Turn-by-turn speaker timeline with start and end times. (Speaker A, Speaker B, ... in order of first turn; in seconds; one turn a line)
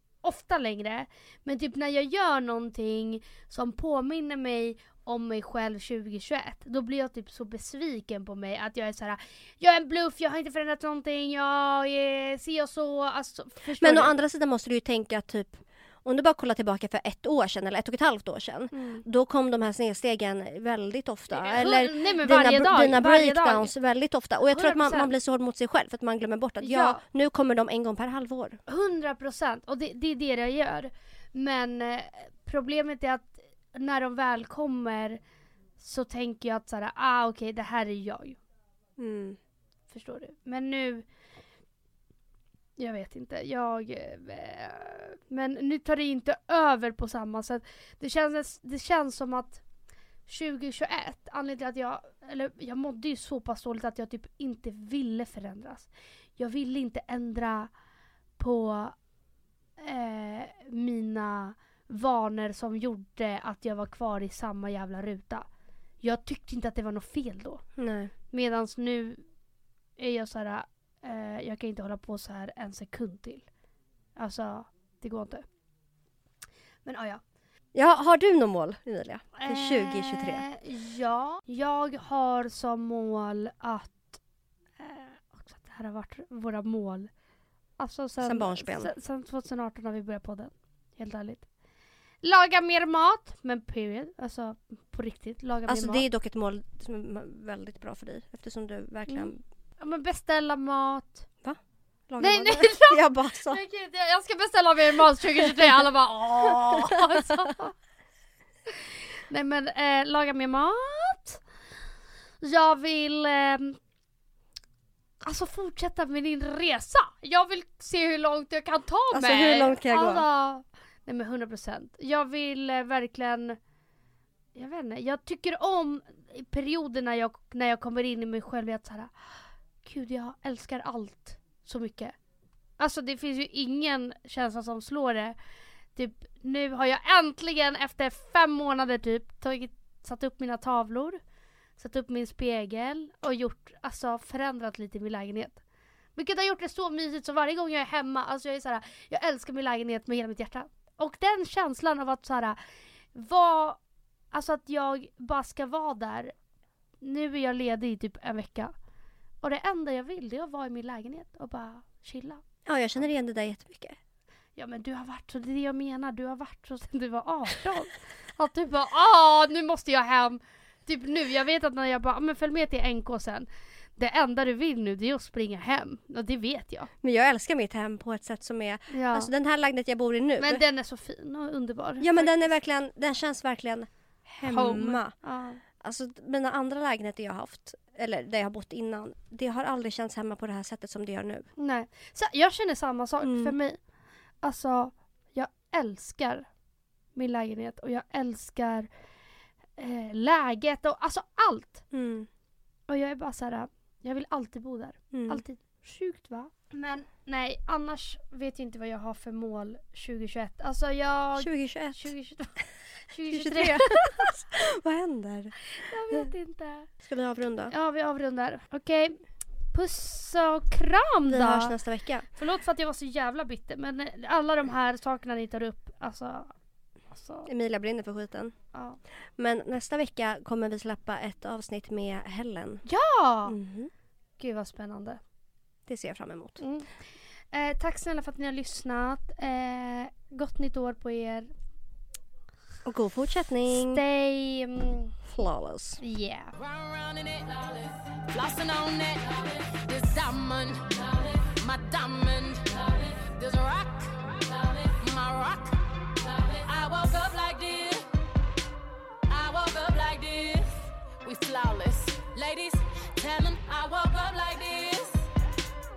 Speaker A: 0.2-14.1
Speaker B: 13.8-28.6
Speaker A: 18.7-19.0
Speaker A: 21.3-23.7
Speaker A: 24.5-25.1
Speaker A: 26.6-27.0
Speaker A: 28.7-35.2
Speaker A: 35.8-38.4
Speaker B: 39.0-39.4
Speaker A: 39.9-41.0
Speaker A: 42.8-49.6
Speaker A: 50.3-57.7
Speaker A: 58.4-59.0
Speaker A: 59.8-65.5
Speaker A: 66.0-67.6
Speaker B: 67.8-68.1
Speaker A: 68.3-69.2
Speaker A: 70.0-73.5
Speaker A: 74.2-75.4
Speaker A: 76.8-77.2
Speaker B: 77.7-80.4
Speaker A: 79.4-84.2
Speaker A: 84.8-87.1
Speaker A: 87.8-91.5
Speaker B: 88.2-88.9
Speaker A: 92.2-96.0
Speaker B: 95.7-99.4
Speaker A: 99.1-101.2
Speaker B: 101.4-103.6
Speaker A: 102.2-107.7
Speaker B: 106.5-107.4
Speaker A: 109.3-111.4
Speaker A: 112.4-113.8
Speaker A: 115.2-123.6
Speaker B: 119.1-120.2
Speaker A: 124.5-129.1
Speaker A: 129.8-132.1
Speaker A: 132.8-135.3
Speaker A: 135.9-141.2
Speaker A: 141.8-145.6
Speaker A: 146.2-152.6
Speaker A: 153.1-153.8
Speaker A: 154.3-156.3
Speaker A: 157.0-158.7
Speaker A: 159.4-162.4
Speaker B: 162.7-164.0
Speaker A: 164.6-176.9
Speaker B: 177.0-180.6
Speaker A: 178.9-179.3
Speaker A: 180.4-182.5
Speaker B: 182.0-185.1
Speaker A: 184.4-185.6
Speaker B: 185.8-191.5
Speaker A: 191.6-193.8
Speaker B: 193.2-193.5
Speaker A: 194.4-196.5
Speaker A: 197.2-198.9
Speaker A: 199.8-201.8
Speaker B: 201.9-202.3
Speaker A: 202.9-212.6
Speaker B: 205.1-205.4
Speaker B: 211.4-212.1
Speaker A: 213.1-214.3
Speaker B: 213.3-215.6
Speaker A: 215.7-216.9
Speaker B: 217.0-217.7
Speaker A: 217.7-219.2
Speaker A: 219.7-221.8
Speaker B: 221.3-222.3
Speaker A: 222.3-226.5
Speaker A: 227.1-227.5
Speaker B: 227.4-228.5
Speaker A: 228.7-229.0
Speaker B: 229.4-232.8
Speaker A: 232.8-233.6
Speaker B: 233.5-233.9
Speaker A: 234.4-235.2
Speaker B: 235.9-236.6
Speaker A: 236.6-236.9
Speaker A: 237.5-241.5
Speaker B: 242.8-244.0
Speaker A: 243.7-245.1
Speaker B: 245.3-246.0
Speaker A: 246.0-246.5
Speaker C: 246.6-258.0
Speaker C: 259.3-265.3